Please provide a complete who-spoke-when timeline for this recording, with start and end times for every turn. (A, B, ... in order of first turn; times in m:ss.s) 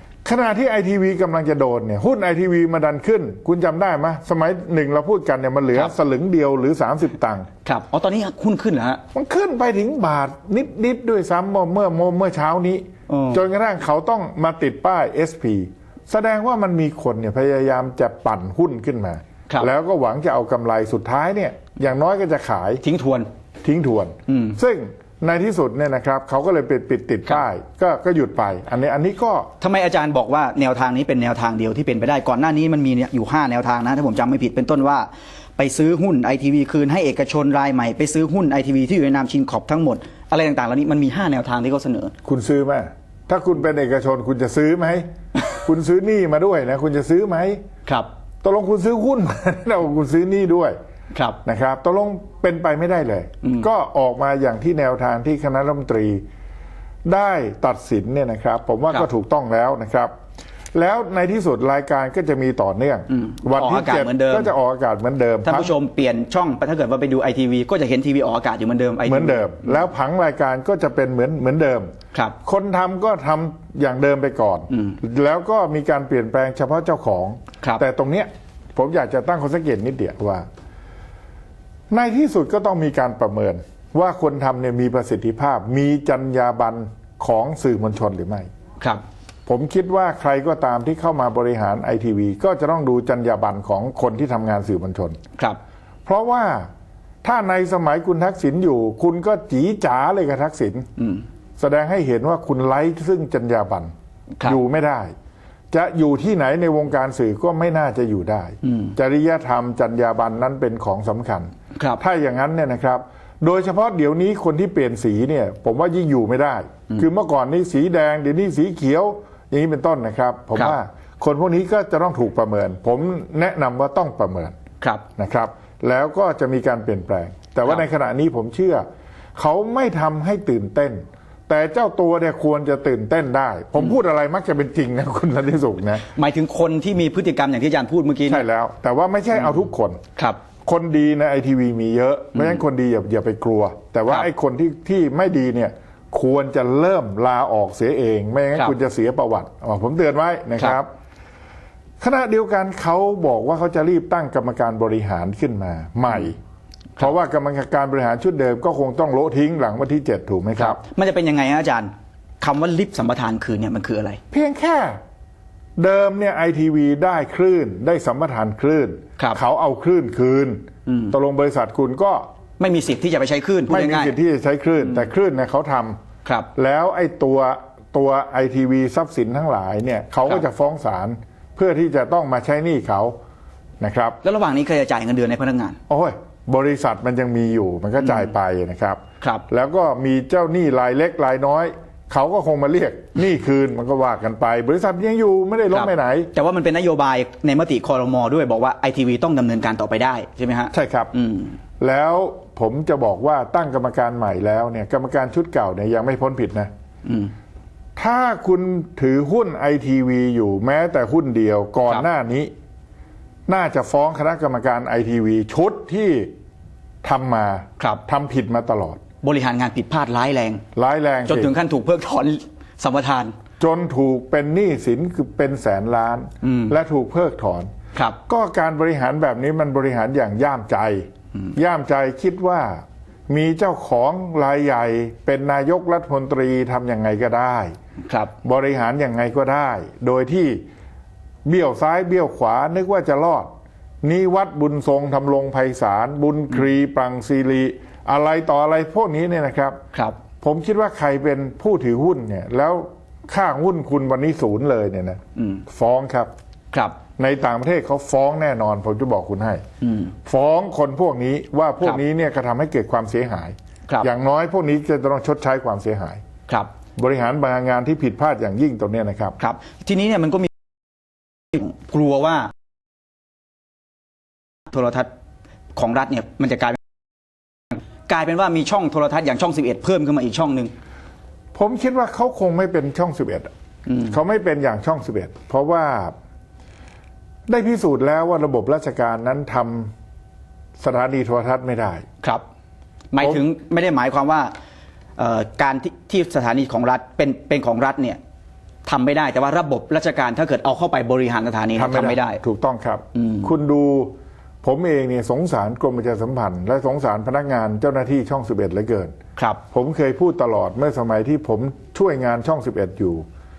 0:00.2-0:07.5 A
0:07.6-0:09.0 B
0:09.1-0:22.8 A
0:13.1-0:13.4 B
0:22.8-0:23.3 B
0:23.6-0:29.5 A
0:24.3-0:24.6 B
0:29.6-0:42.1 B
0:42.2-0:47.6 A
0:48.4-0:50.8 A
0:51.4-0:56.2 A
0:57.1-1:00.1 A
1:00.7-1:05.8 A
1:03.1-1:04.5 B
1:05.4-1:09.7 B
1:09.0-1:11.9 A
1:12.4-1:20.5 A
1:14.7-1:15.0 B
1:21.9-1:28.5 A
1:29.5-1:35.2 A
1:36.1-1:36.7 A
1:37.2-1:40.9 A
1:41.0-1:41.2 B
1:41.6-1:43.9 A
1:44.4-1:45.1 A
1:45.7-2:04.6 A
1:48.6-1:49.0 B
1:51.8-1:52.0 B
2:05.2-2:08.8 A
2:09.4-2:16.1 A
2:16.1-2:18.4 B
2:18.3-2:20.0 A
2:20.6-2:30.9 A
2:32.0-2:36.4 A
2:37.0-2:40.8 A
2:40.6-2:44.2 B
2:44.3-2:45.0 A
2:45.8-2:52.3 A
2:50.9-2:51.1 B
2:52.6-2:54.2 B
2:53.7-2:56.0 A
2:56.6-3:03.2 A
3:03.8-3:04.2 A
3:04.2-3:05.8 B
3:05.9-3:16.3 A
3:15.7-3:21.6 B
3:20.7-3:21.1 A
3:21.8-3:26.7 A
3:27.0-3:27.3 B
3:28.0-3:32.5 A
3:33.5-3:36.3 A
3:37.0-3:39.0 A
3:39.2-3:40.6 B
3:40.8-3:41.5 A
3:41.3-3:43.3 B
3:43.6-3:47.7 A
3:46.4-3:46.7 B
3:48.3-3:57.7 A
3:58.0-3:58.3 B
3:58.4-4:00.6 A
4:01.4-4:03.5 A
4:04.0-4:09.8 A
4:10.4-4:16.3 A
4:17.2-4:19.6 A
4:19.8-4:20.1 B
4:20.2-4:26.2 A
4:27.0-4:29.4 A
4:29.4-4:30.5 B
4:31.5-4:32.5 B
4:34.7-4:35.1 B
4:35.8-4:36.8 B
4:38.1-4:40.7 B
4:41.6-4:43.5 A
4:44.1-4:46.2 A
4:47.5-4:49.9 A
4:50.8-4:52.0 A
4:53.1-4:54.5 B
4:55.2-4:58.2 B
4:58.8-5:02.4 B
5:01.8-5:09.2 A
5:03.2-5:03.5 B
5:09.7-5:13.2 A